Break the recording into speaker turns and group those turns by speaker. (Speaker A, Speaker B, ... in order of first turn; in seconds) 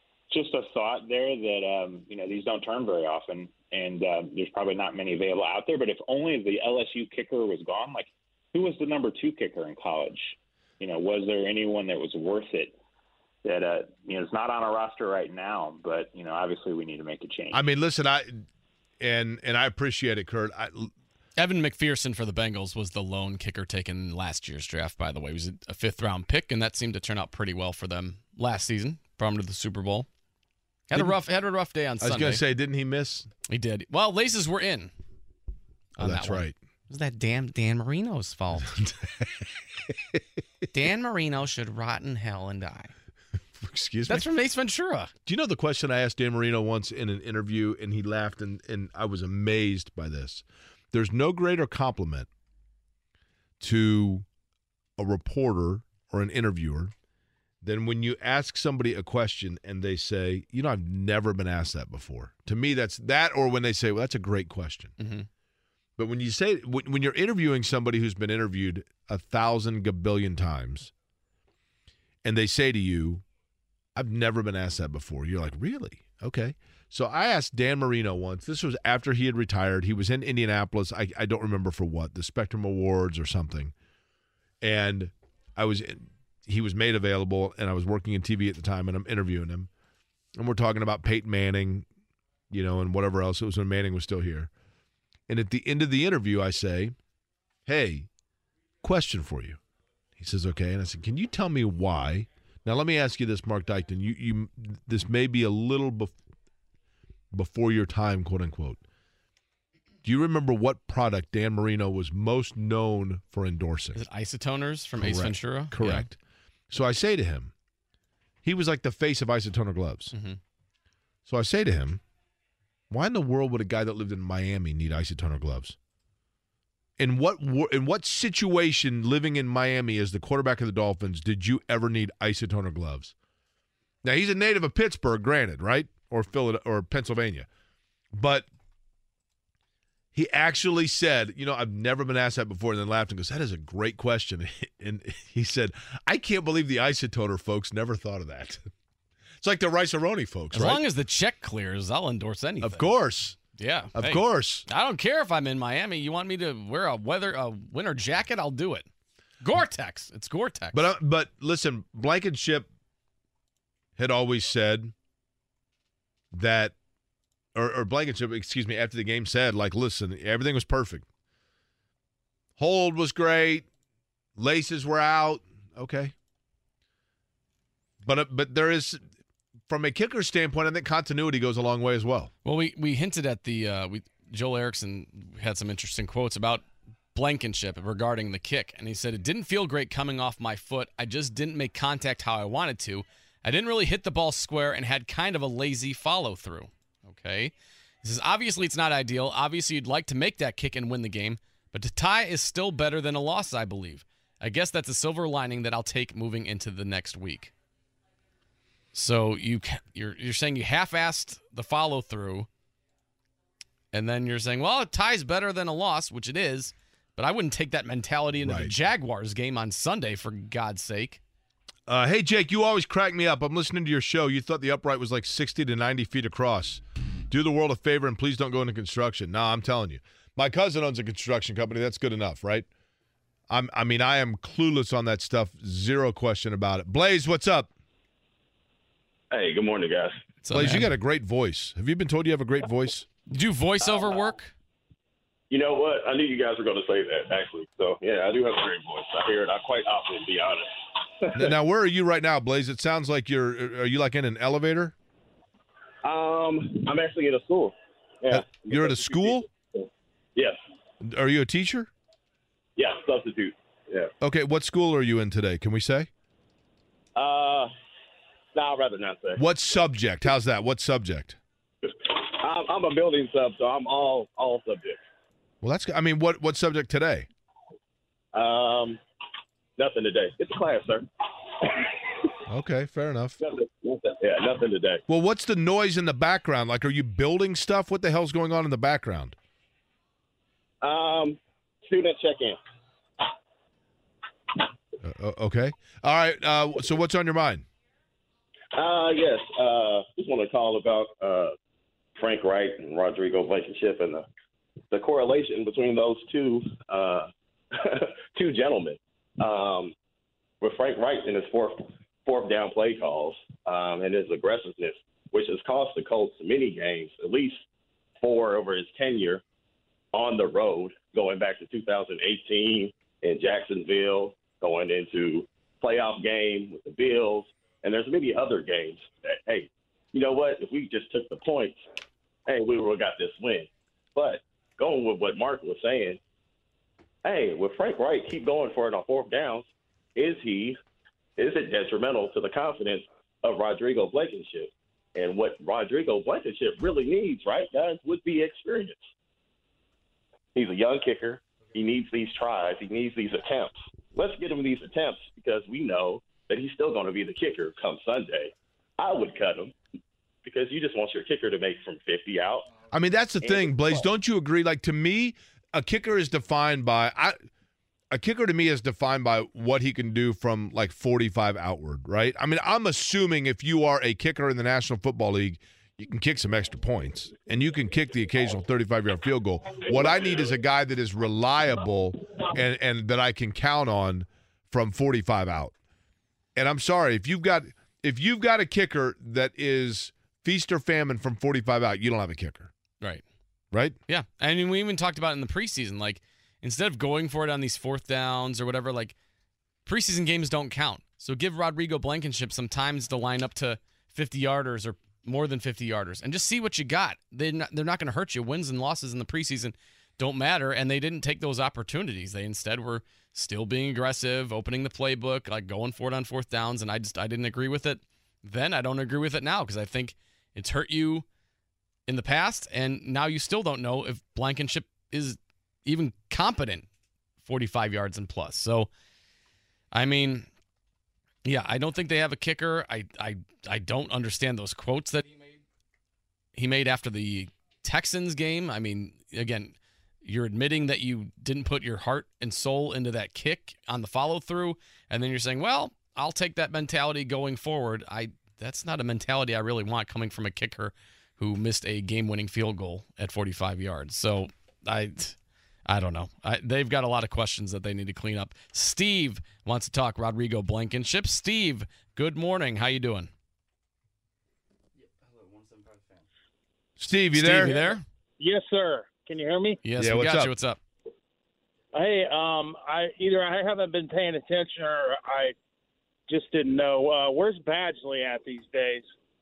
Speaker A: 0.3-12.8, 13.4-17.6
Speaker B: 17.5-18.4, 19.0-20.9, 32.0-33.3, 36.0-36.5, 38.7-40.2, 43.6-44.3, 45.2-52.3, 53.6-54.2, 55.0-56.9, 57.6-64.9, 66.0-70.9, 72.2-73.2, 73.9-83.7, 84.6-89.7, 90.3-91.9, 92.5-94.5, 95.3-97.0, 97.7-98.1, 98.8-99.6, 100.2-106.1, 107.3-108.8, 110.0-114.0, 115.0-116.2, 116.7-117.5, 118.4-120.1, 121.3-122.0, 122.9-125.8, 127.0-133.1, 134.0-137.5, 138.1-138.5, 140.1-148.7, 149.4-150.8, 152.6-153.4, 153.9-154.7, 160.7-162.7, 164.0-164.9, 166.3-166.7, 167.5-171.1, 172.6-173.7, 174.3-176.1, 178.0-179.0, 179.7-182.3, 218.4-218.7, 221.9-232.7, 233.5-237.7, 240.5-243.1, 251.3-254.9, 258.3-259.4, 261.0-261.9, 264.2-266.1, 269.4-271.4, 275.6-277.3, 282.5-283.4, 285.1-289.4, 295.0-297.6, 362.9-367.4, 368.1-385.7, 386.6-392.7, 393.7-394.0, 467.0-467.7, 470.0-470.5
Speaker C: 21.4-30.1, 30.9-32.4, 33.5-34.9, 36.0-38.8, 40.7-42.9, 44.1-45.1, 65.0-65.3, 114.0-116.0, 120.1-120.4, 150.5-152.9, 153.6-158.9, 159.4-160.8, 182.4-186.6, 187.1-207.5, 208.9-212.5, 213.9-221.2, 240.4-240.9, 243.3-244.5, 394.1-399.1, 399.8-421.2, 422.1-426.9, 427.4-428.9, 429.9-430.5, 431.4-435.5, 436.5-463.3, 467.3-468.0, 469.8-470.8
Speaker D: 239.3-240.3, 243.8-244.3, 245.5-251.5, 256.0-260.6, 262.8-264.1, 267.1-267.7, 268.5-269.4, 271.9-275.0, 278.3-279.0, 279.8-281.9, 283.4-285.0, 290.8-292.6, 298.7-301.5, 302.1-304.2, 304.9-309.9, 310.6-317.6, 318.2-319.4, 320.1-331.8, 332.4-336.2, 337.2-340.8, 341.4-349.1, 350.5-359.7, 360.4-362.8, 363.4-364.0
Speaker E: 467.5-469.8, 471.9-475.5, 476.3-479.1